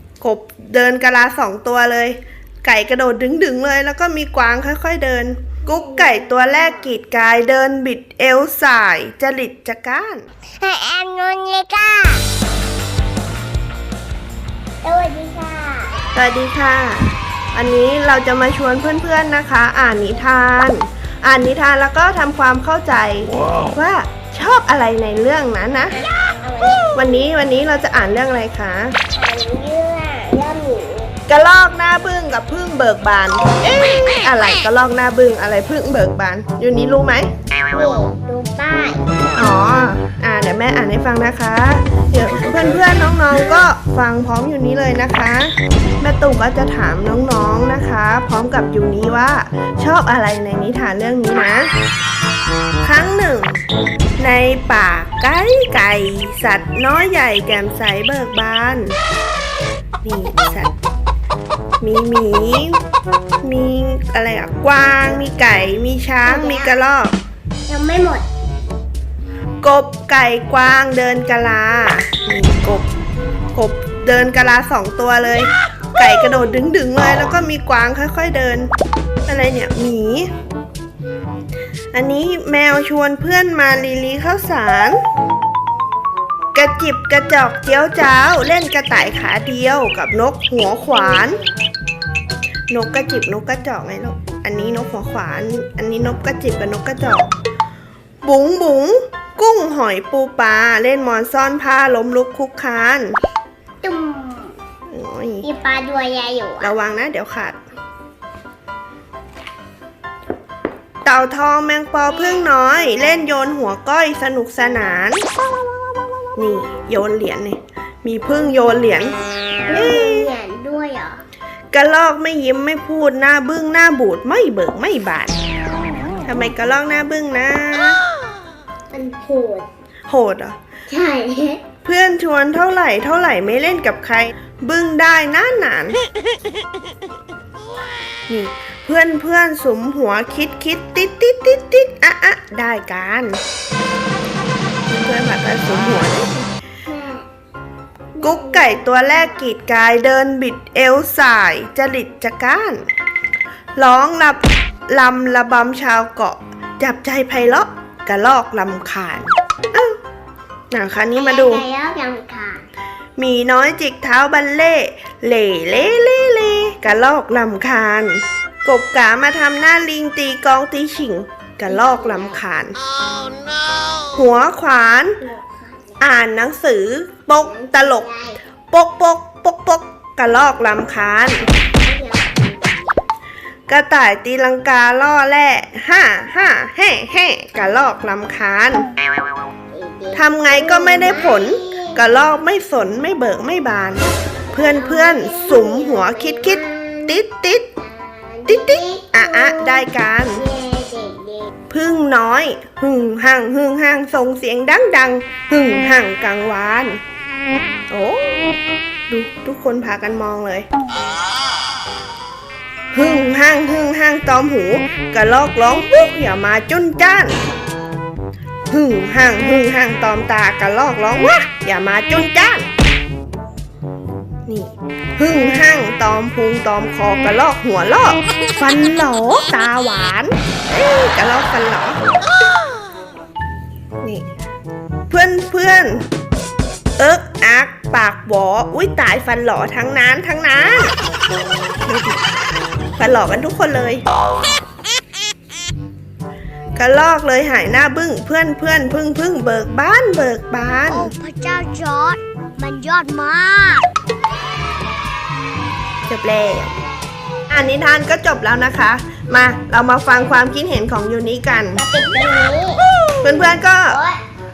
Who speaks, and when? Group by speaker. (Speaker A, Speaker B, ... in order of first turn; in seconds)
Speaker A: 0.2-10.2, 16.1-26.0, 26.9-29.0, 31.3-37.3, 39.3-51.7, 52.8-53.6, 54.2-59.0, 60.0-60.7, 61.8-62.8, 63.4-67.2, 69.6-72.9, 73.5-78.7, 79.2-80.3, 81.9-85.0, 86.5-91.4, 92.7-97.3, 98.2-103.2, 104.9-105.5, 106.6-107.6, 111.0-115.2, 116.4-119.2, 119.7-120.3, 121.7-125.3, 126.2-128.0, 130.1-130.6, 131.8-136.0, 138.3-143.4, 144.9-146.4, 148.2-152.8, 153.8-160.0, 160.7-161.6, 163.2-172.8, 174.1-175.2, 176.0-178.1, 178.7-181.4, 183.7-188.9, 190.1-197.7, 198.5-200.4, 201.7-207.0, 207.9-208.6, 209.1-210.7, 212.9-217.4, 218.7-222.7, 224.5-232.0, 234.0-234.3, 235.1-236.0, 237.0-240.9, 241.8-242.2, 243.0-244.0, 246.8-251.1, 256.1-256.7, 257.5-261.8, 263.2-264.0
Speaker B: 5.6-6.9, 10.6-12.2, 14.8-16.1, 26.0-27.3, 29.1-31.1, 37.7-39.2, 66.2-66.8, 67.7-68.3, 90.7-91.6, 103.8-104.6, 105.4-106.7, 115.3-116.8, 119.7-121.2, 128.9-129.7, 130.9-131.6, 146.8-147.2, 148.2-149.5, 161.1-162.7, 171.7-172.4, 175.2-176.0, 177.4-178.4, 181.4-183.0, 189.7-192.1, 194.5-197.2, 197.8-201.5, 250.6-253.9, 261.8-264.2